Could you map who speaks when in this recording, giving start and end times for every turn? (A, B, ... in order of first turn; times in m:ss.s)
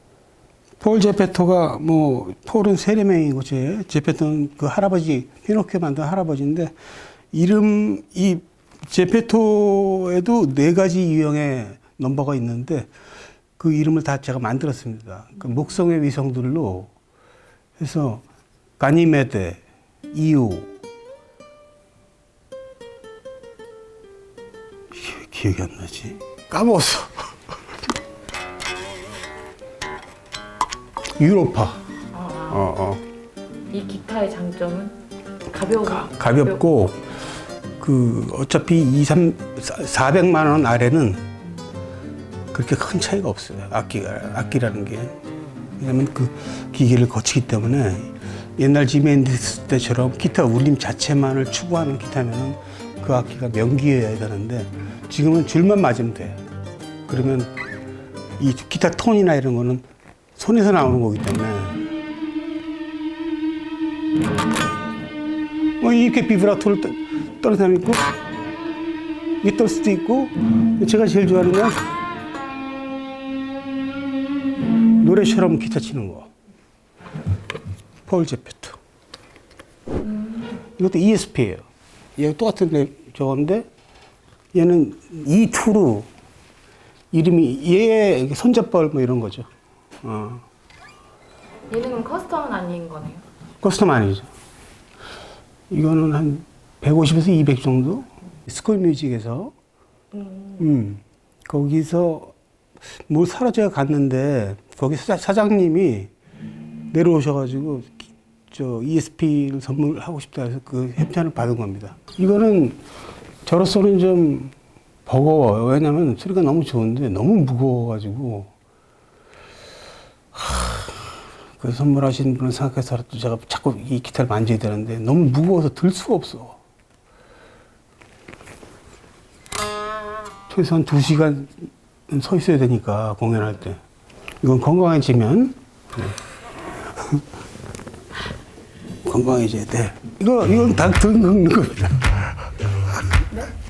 0:00.8-0:06.8 A
0:07.3-0:12.9 A
0:13.6-0:16.9 A
0:17.8-0:18.2 A
0:18.8-0:20.7 A
0:24.9-0:27.3 A
0:31.2-0:31.8 A
0:32.1-0:32.6 B
0:32.5-0:33.0 A
0:33.7-0:36.6 B
0:35.9-0:37.0 A
0:37.8-0:41.2 A
0:42.5-0:45.2 A
0:45.8-0:56.4 A
0:57.1-0:57.5 A
0:58.4-0:59.8 A
1:00.4-1:01.8 A
1:05.8-1:08.0 A
1:09.4-1:11.8 A
1:15.0-1:16.3 A
1:18.1-1:18.8 A
1:20.7-1:21.6 A
1:22.2-1:23.7 A
1:24.5-1:26.1 A
1:27.1-1:29.5 A
1:30.0-1:30.4 A
1:31.7-1:33.2 B
1:33.6-1:34.3 A
1:35.7-1:39.5 A
1:40.2-1:40.6 B
1:40.6-1:42.3 A
1:43.1-1:46.1 A
1:46.9-1:52.8 A
1:53.5-1:54.6 A
1:55.1-1:58.5 A
2:00.3-2:06.6 A
2:10.5-2:13.8 A
2:14.4-2:16.2 A
2:19.0-2:22.5 A